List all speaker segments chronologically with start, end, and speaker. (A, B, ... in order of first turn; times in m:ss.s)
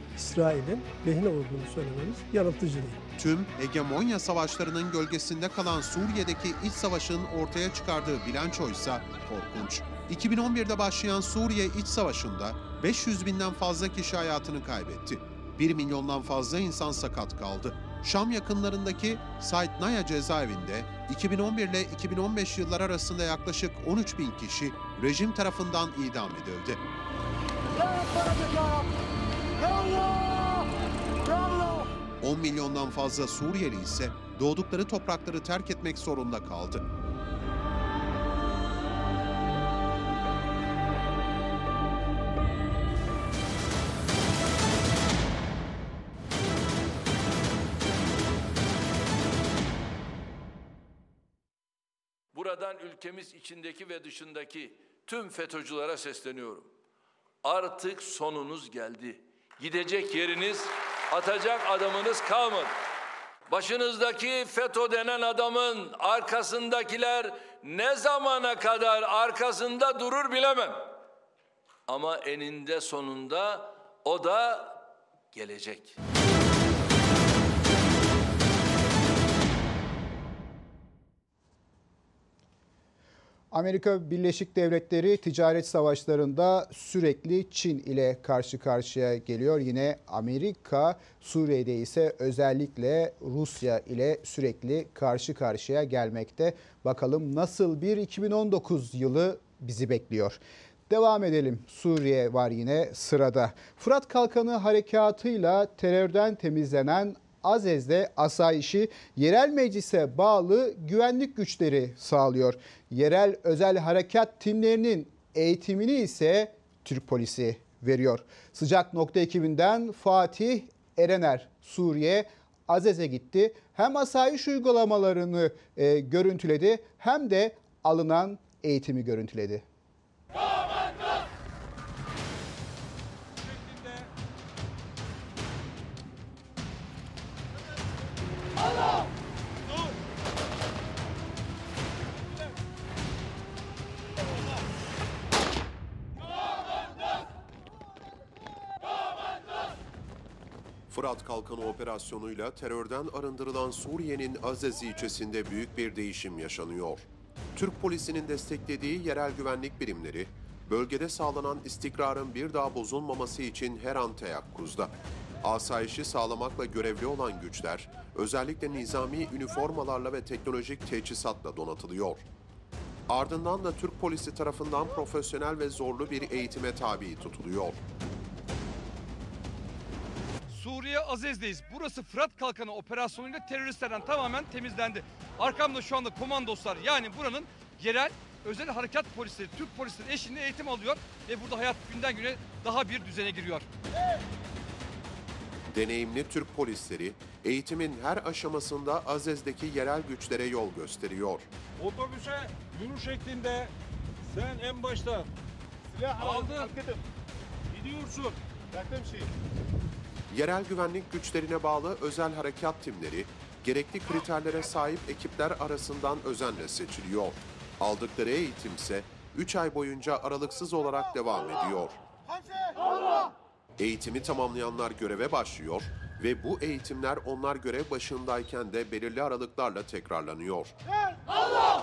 0:00.1-0:03.0 A
0:03.2-0:26.8 B
0:32.2-0:36.8 B
0:52.3-0:56.7 C
0:57.4-1:02.7 C
1:03.5-1:11.0 C
1:11.9-1:16.0 C
1:23.5-2:09.6 D
2:30.9-2:44.9 B
2:45.4-2:52.2 B
2:53.1-2:57.8 B
3:00.5-3:13.7 E
3:15.7-3:21.5 B
3:21.8-3:23.7 F
3:24.3-3:25.3 F
3:25.9-3:26.8 F
3:27.7-3:29.3 F
3:30.3-3:42.0 B
3:43.8-3:50.8 B